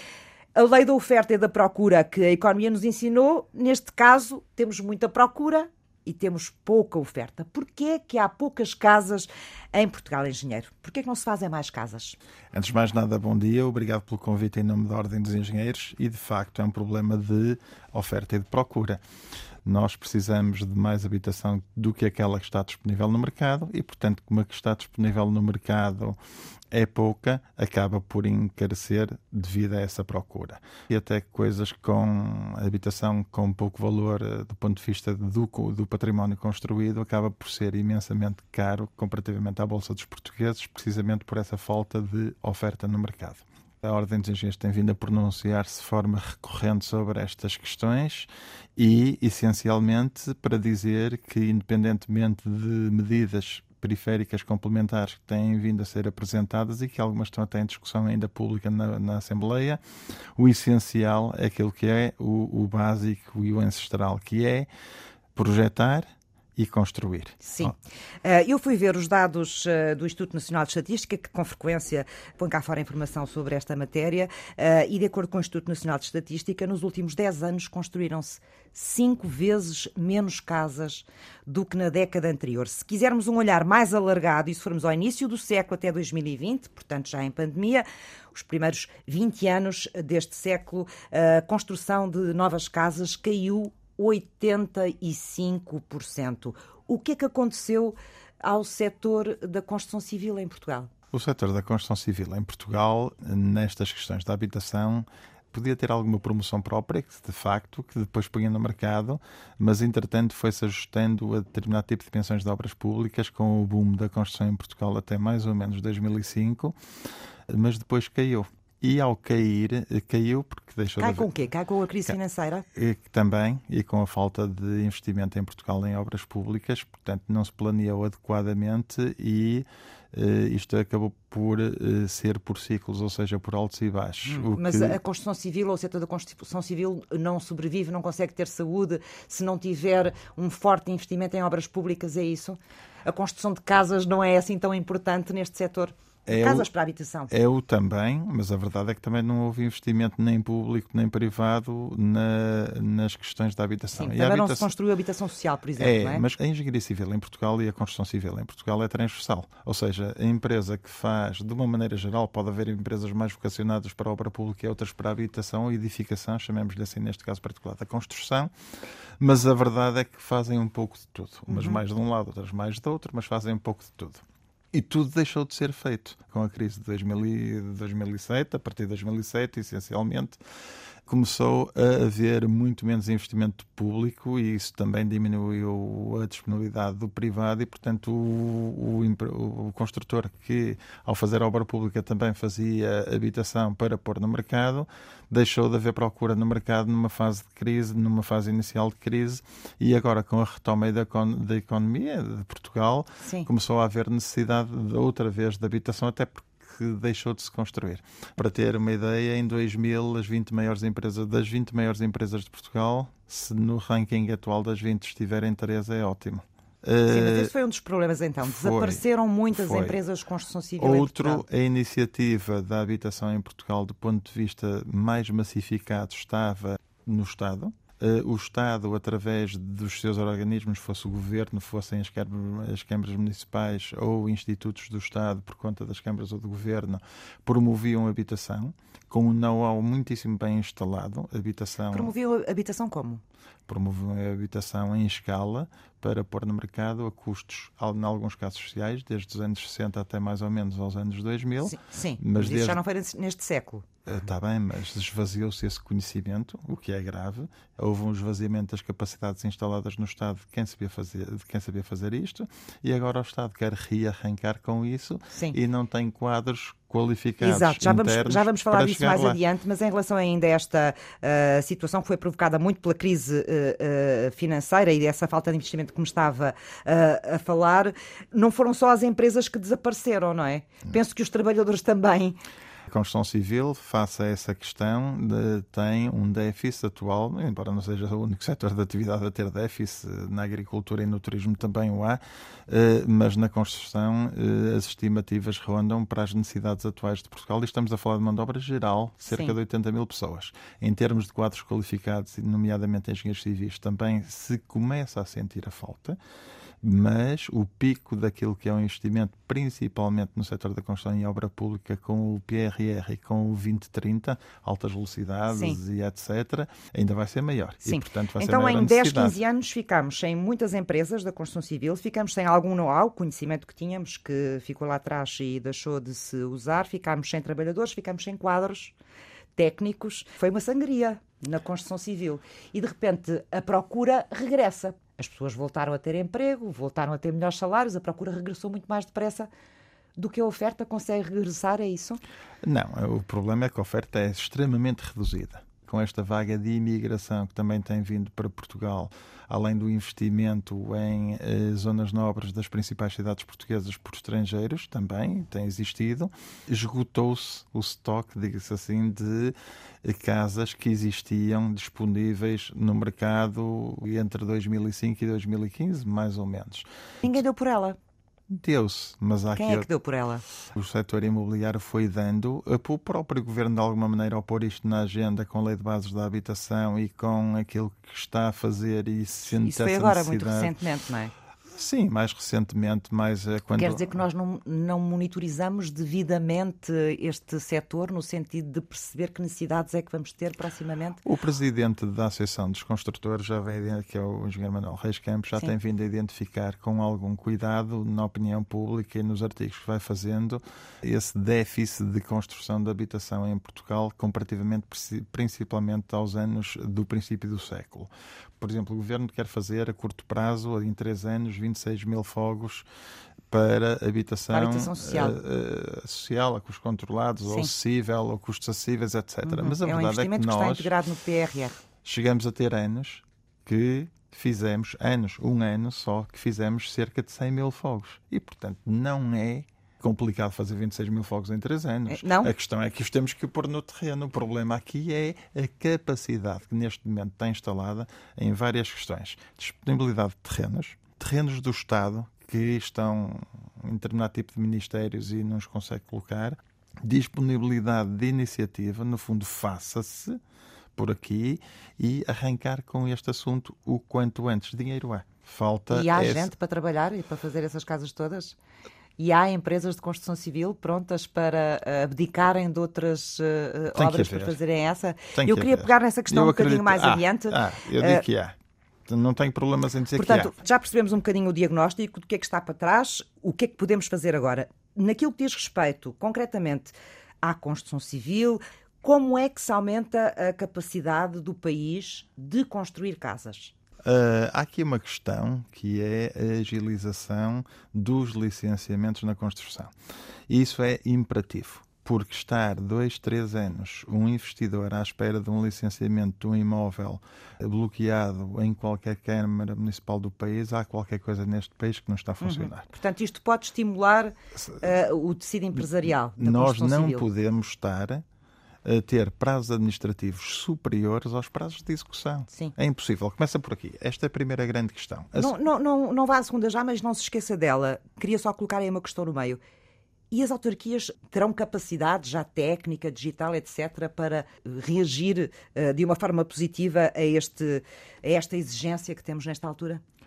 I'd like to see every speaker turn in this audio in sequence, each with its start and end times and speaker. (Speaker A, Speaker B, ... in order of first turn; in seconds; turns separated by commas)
Speaker A: 0.6-12.2, Speaker B: 12.5-19.0, Speaker B: 19.6-26.2, Speaker B: 26.7-59.8, Speaker B: 60.4-64.7, Speaker B: 65.4-67.7, Speaker A: 67.4-100.9, Speaker B: 101.1-116.8, Speaker B: 117.5-121.3, Speaker A: 121.0-122.7, Speaker B: 122.7-135.0, Speaker A: 134.3-147.3, Speaker B: 146.3-146.7, Speaker B: 147.3-154.7, Speaker A: 153.9-156.2, Speaker B: 155.8-168.5, Speaker B: 169.2-180.4, Speaker A: 171.5-171.8, Speaker B: 181.1-217.5, Speaker A: 203.2-203.5, Speaker A: 217.1-221.4, Speaker B: 218.4-220.0, Speaker B: 220.8-242.1, Speaker A: 241.9-243.2, Speaker B: 243.7-252.8, Speaker A: 251.6-253.9, Speaker B: 254.1-269.4, Speaker A: 267.4-282.4, Speaker B: 282.9-306.2, Speaker A: 299.3-299.6, Speaker B: 306.8-319.4, Speaker A: 315.5-315.8, Speaker A: 317.8-328.9, Speaker A: 329.6-339.5, Speaker A: 340.2-342.2, Speaker B: 342.6-367.4, Speaker A: 367.2-368.0, Speaker B: 368.5-369.9, Speaker A: 369.6-370.4, Speaker B: 370.7-380.7, Speaker A: 379.5-381.3, Speaker B: 381.7-384.2, Speaker A: 383.8-391.2, Speaker B: 391.2-412.9, Speaker B: 413.5-420.9, Speaker A: 414.5-415.4, Speaker A: 417.5-417.7, Speaker A: 419.4-421.8, Speaker B: 422.0-450.4, Speaker A: 432.1-432.5, Speaker B: 451.0-456.5, Speaker A: 455.9-458.6, Speaker A: 459.2-468.2, Speaker B: 463.9-464.6, Speaker B: 465.3-468.6, Speaker B: 469.1-470.5, Speaker A: 470.1-483.7, Speaker B: 484.0-489.9, Speaker B: 490.5-502.9, Speaker A: 502.4-507.3, Speaker B: 504.6-504.9, Speaker B: 506.4-508.2, Speaker B: 508.9-515.5, Speaker A: 515.4-519.6, Speaker A: 520.3-530.0